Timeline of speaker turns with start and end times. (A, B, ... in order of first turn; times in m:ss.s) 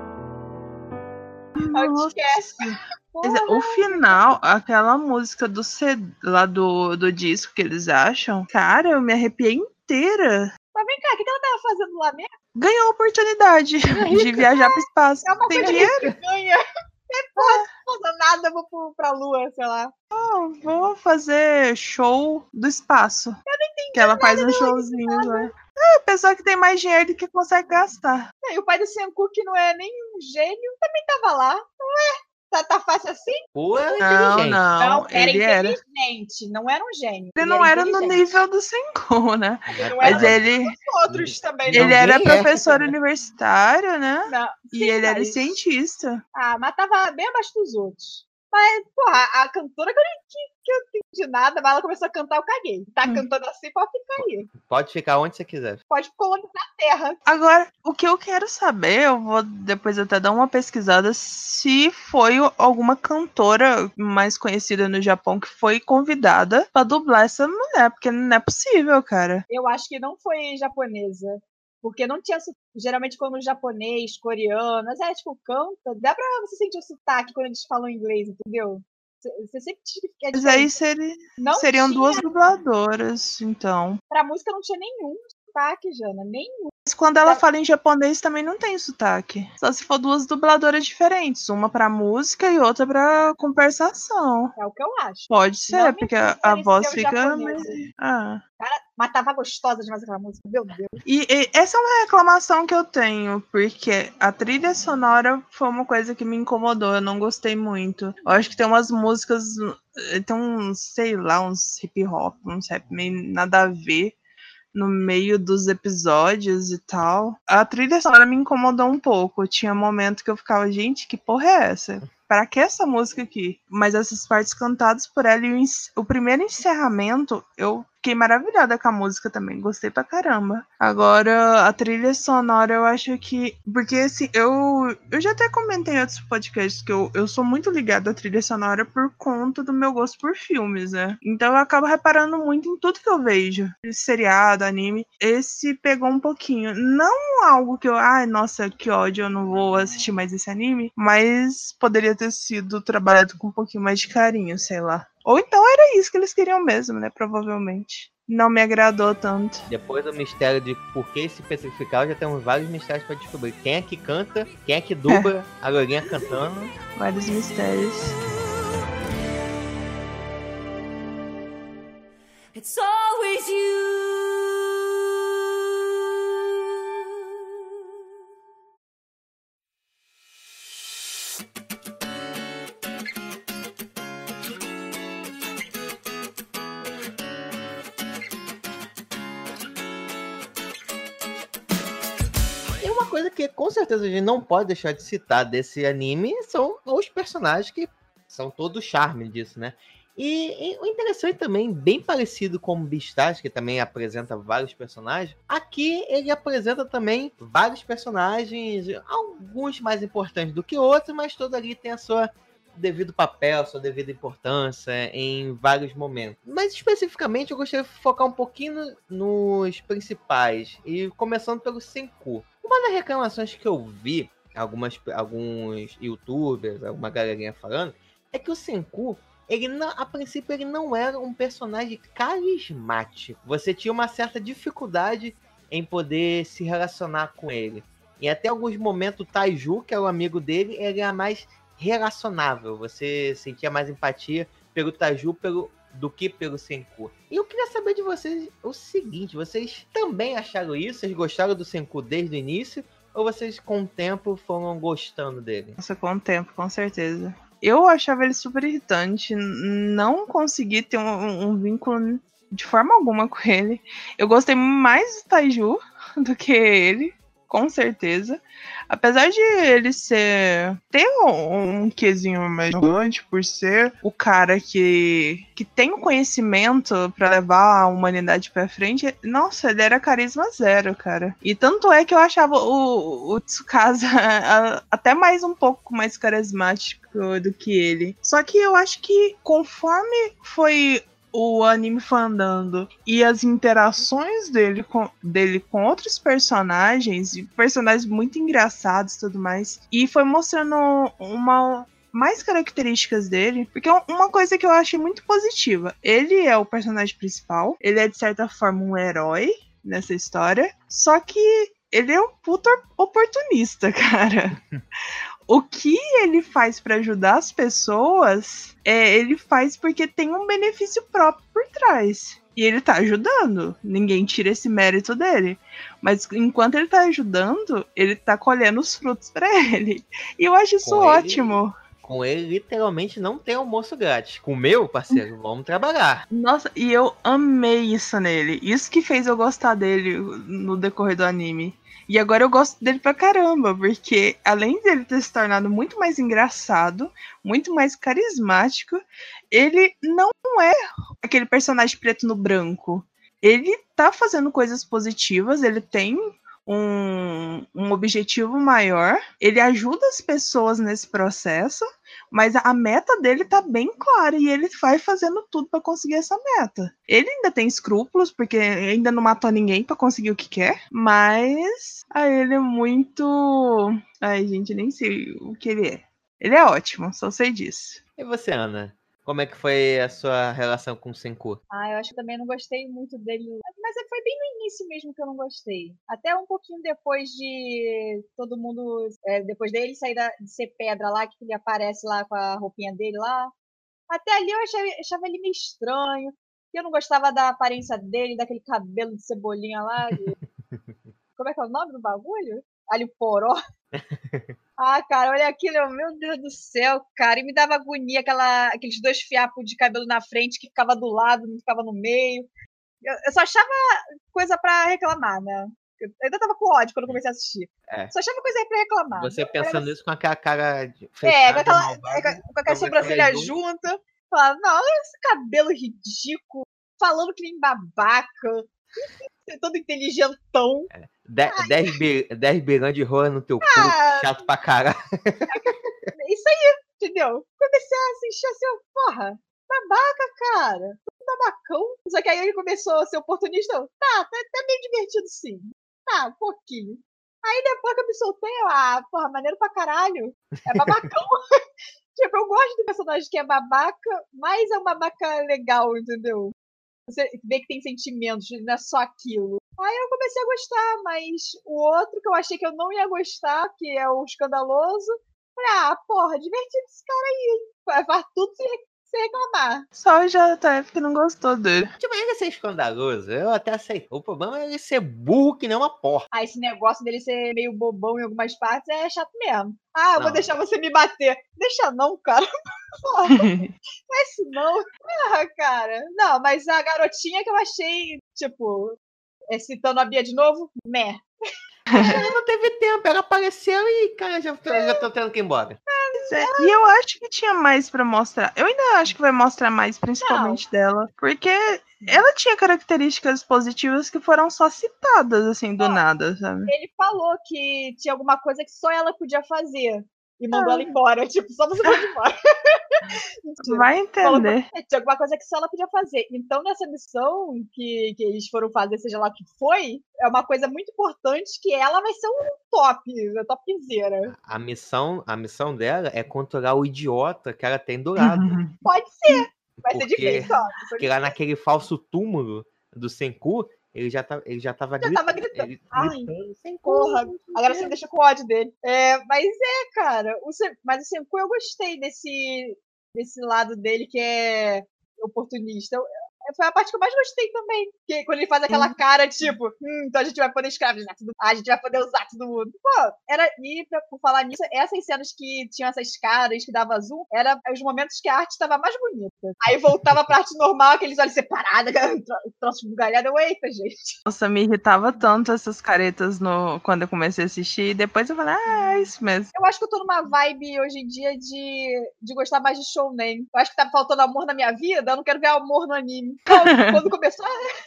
0:01.6-0:10.5 A
0:01.7-0:04.2 B
0:10.7-0:12.3 B
0:12.5-0:16.1 A
0:13.9-0:19.9 B
0:15.6-0:16.1 C
0:17.4-0:17.6 A
0:20.1-0:23.4 A
0:23.5-0:25.5 B
0:23.9-0:28.3 A
0:28.4-0:33.4 B
0:33.5-0:34.6 C
0:34.0-0:35.8 A
0:34.8-0:38.4 B
0:37.4-0:40.7 A
0:39.7-0:40.4 C
0:39.9-0:42.0 B
0:41.1-0:42.9 C
0:41.7-0:46.2 A
0:44.3-0:45.5 B
0:46.3-0:54.5 B
0:54.2-0:55.8 C
0:55.9-0:57.2 B
0:57.3-1:09.4 A
1:09.5-1:20.7 B
1:20.3-1:24.0 A
1:21.4-1:22.3 B
1:24.1-1:27.4 B
1:26.9-1:34.5 A
1:34.6-1:37.7 B
1:35.3-1:38.4 A
1:38.6-1:41.0 B
1:41.0-1:54.2 A
1:54.7-2:39.6 A
2:39.7-2:46.7 C
2:47.0-2:48.1 A
2:48.3-2:48.8 D
2:52.5-2:57.8 D
3:12.8-4:15.8 C
4:15.8-5:14.6 A
5:15.5-5:31.7 A
5:30.8-5:36.2 C
5:36.3-6:18.0 A
6:18.2-6:21.6 C
6:21.7-6:33.5 B
6:34.1-6:40.4 B
6:41.4-6:43.6 B
6:43.9-6:44.6 C
6:44.8-6:52.5 B
6:53.0-6:59.9 B
6:57.9-6:58.1 C
6:59.1-7:03.5 C
7:01.2-7:10.9 B
7:10.9-7:15.9 C
7:11.5-7:11.9 B
7:13.6-7:14.4 B
7:15.5-7:31.4 B
7:30.6-7:31.0 C
7:32.2-7:36.5 B
7:37.1-7:49.8 B
7:50.0-7:51.9 A
7:52.0-7:56.3 C
7:56.3-8:02.4 B
8:00.2-8:00.5 C
8:03.0-8:09.0 B
8:03.3-8:03.7 A
8:09.5-8:11.2 B
8:11.9-8:12.2 A
8:11.9-8:12.3 B
8:12.0-8:15.8 C
8:14.7-8:15.0 B
8:15.9-8:16.7 B
8:16.2-8:26.7 A
8:20.2-8:20.6 B
8:26.7-8:44.3 B
8:30.5-8:30.9 A
8:33.6-8:34.7 A
8:44.3-8:48.6 C
8:48.2-8:48.7 A
8:48.8-8:51.3 B
8:49.8-8:57.4 C
8:55.0-8:56.3 B
8:56.8-9:24.2 B
9:08.7-9:08.9 A
9:24.3-9:29.5 A
9:29.5-9:37.6 B
9:36.5-9:37.0 A